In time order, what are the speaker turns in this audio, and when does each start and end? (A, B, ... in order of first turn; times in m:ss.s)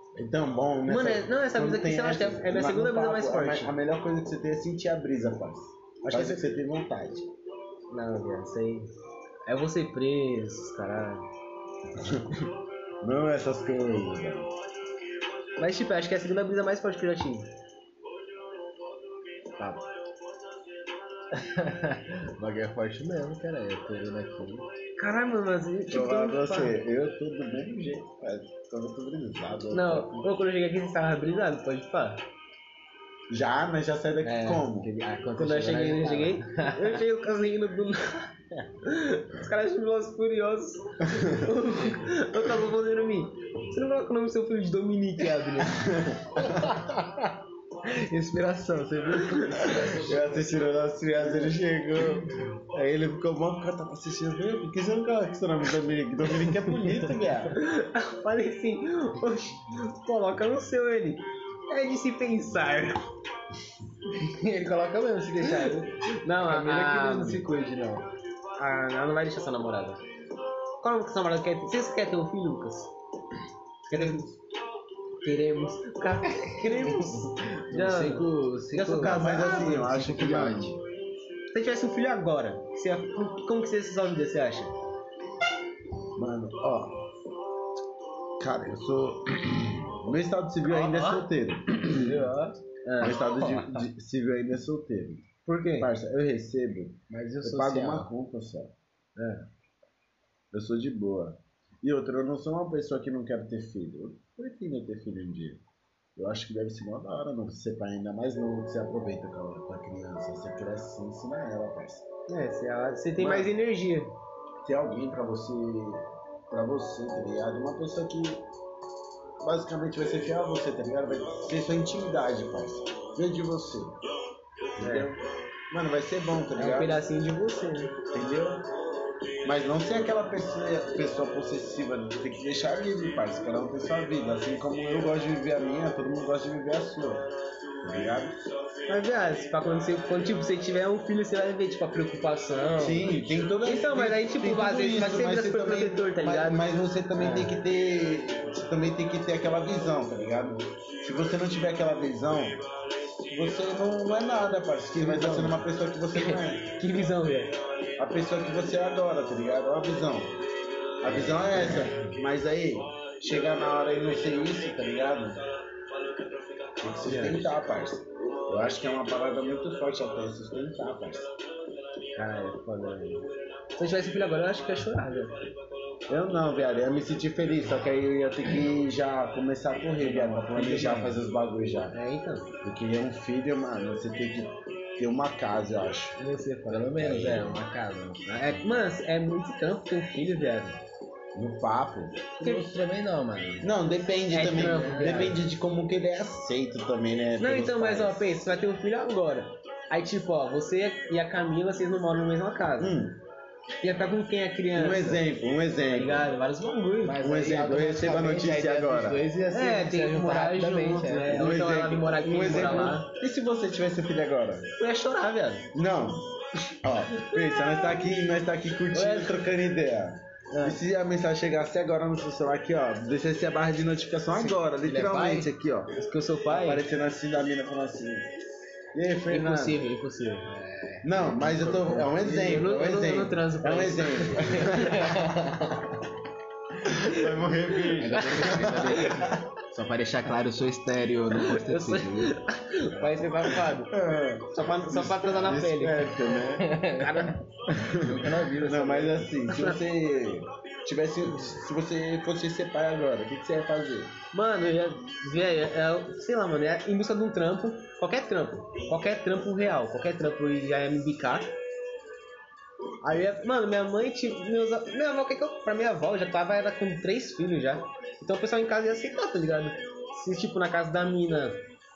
0:00.1-0:07.3 A
0:00.9-0:03.7 B
0:06.1-0:06.4 B
0:07.9-0:08.9 B
0:09.5-0:11.2 B
0:11.9-0:14.5 A
0:15.6-0:17.5 B
0:21.3-0:24.7 C
0:25.0-0:26.7 B
0:25.9-0:30.3 A
0:29.7-0:32.2 B
0:33.3-0:34.9 A
0:34.2-0:37.0 C
0:35.4-0:45.9 B
0:41.1-0:41.5 A
0:45.6-0:46.8 A
0:46.4-0:50.2 C
0:49.2-0:49.7 B
0:49.7-0:57.6 A
0:57.5-1:03.1 B
1:04.1-1:08.0 C
1:05.4-1:07.6 B
1:08.6-1:10.0 B
1:10.8-1:12.9 B
1:13.9-1:14.3 B
1:14.0-1:14.2 A
1:15.2-1:18.2 B
1:16.6-1:20.7 C
1:18.7-1:20.8 A
1:18.9-1:19.7 B
1:21.5-1:24.7 B
1:26.1-1:27.0 A
1:28.4-1:32.1 A
1:30.6-1:31.3 B
1:31.8-1:33.7 B
1:32.1-1:32.5 C
1:33.0-1:38.7 A
1:35.4-1:35.9 B
1:37.1-1:38.1 C
1:39.2-1:39.4 B
1:40.5-1:45.6 A
1:46.2-1:52.0 A
1:52.3-1:54.1 B
1:53.2-1:53.5 A
1:54.6-1:58.4 A
1:59.4-2:04.0 A
2:04.8-2:07.0 A
2:04.8-2:05.1 B
2:06.6-2:08.0 B
2:08.1-2:08.6 A
2:09.4-2:17.3 A
2:17.8-2:18.4 A
2:18.9-2:23.1 B
2:22.8-2:32.6 A
2:23.6-2:26.6 B
2:27.2-2:27.5 B
2:33.2-2:36.6 A
2:35.0-2:35.6 B
2:36.2-2:37.5 B
2:38.0-2:40.3 A
2:41.0-2:45.4 A
2:41.6-2:41.9 C
2:41.6-2:41.9 B
2:46.8-2:51.3 A
2:47.0-2:47.4 B
2:52.2-2:55.3 B
2:56.1-3:02.0 A
3:00.0-3:01.2 C
3:01.9-3:02.5 B
3:02.6-3:06.2 A
3:06.2-3:07.3 B
3:06.7-3:08.7 C
3:07.0-3:07.6 A
3:08.4-3:10.8 B
3:11.3-3:12.3 A
3:12.4-3:13.7 C
3:12.4-3:12.7 B
3:13.6-3:18.2 A
3:14.3-3:15.4 B
3:14.6-3:15.4 C
3:17.4-3:23.0 B
3:22.8-3:23.2 A
3:23.8-3:25.2 B
3:24.7-3:26.3 A
3:25.9-3:27.4 B
3:27.0-3:31.6 C
3:27.2-3:29.3 A
3:29.5-3:33.1 B
3:31.3-3:34.7 A
3:34.8-3:35.7 B
3:35.7-3:36.2 A
3:36.8-3:45.9 A
3:38.9-3:39.4 B
3:40.5-3:40.8 B
3:44.4-3:45.5 C
3:46.0-3:46.8 B
3:46.5-3:48.3 A
3:48.9-3:49.8 A
3:49.3-3:50.5 B
3:50.4-3:52.2 C
3:51.0-3:55.6 A
3:52.2-3:55.3 B
3:54.6-3:55.8 C
3:56.8-3:59.4 A
3:56.9-3:57.3 B
3:58.0-4:02.3 C
3:58.4-3:59.3 B
4:01.3-4:03.9 B
4:03.7-4:06.8 A
4:04.5-4:06.2 B
4:06.6-4:07.4 C
4:06.9-4:07.4 B
4:07.7-4:14.1 A
4:07.9-4:09.4 C
4:09.5-4:09.8 B
4:14.3-4:21.5 B
4:23.0-4:31.6 B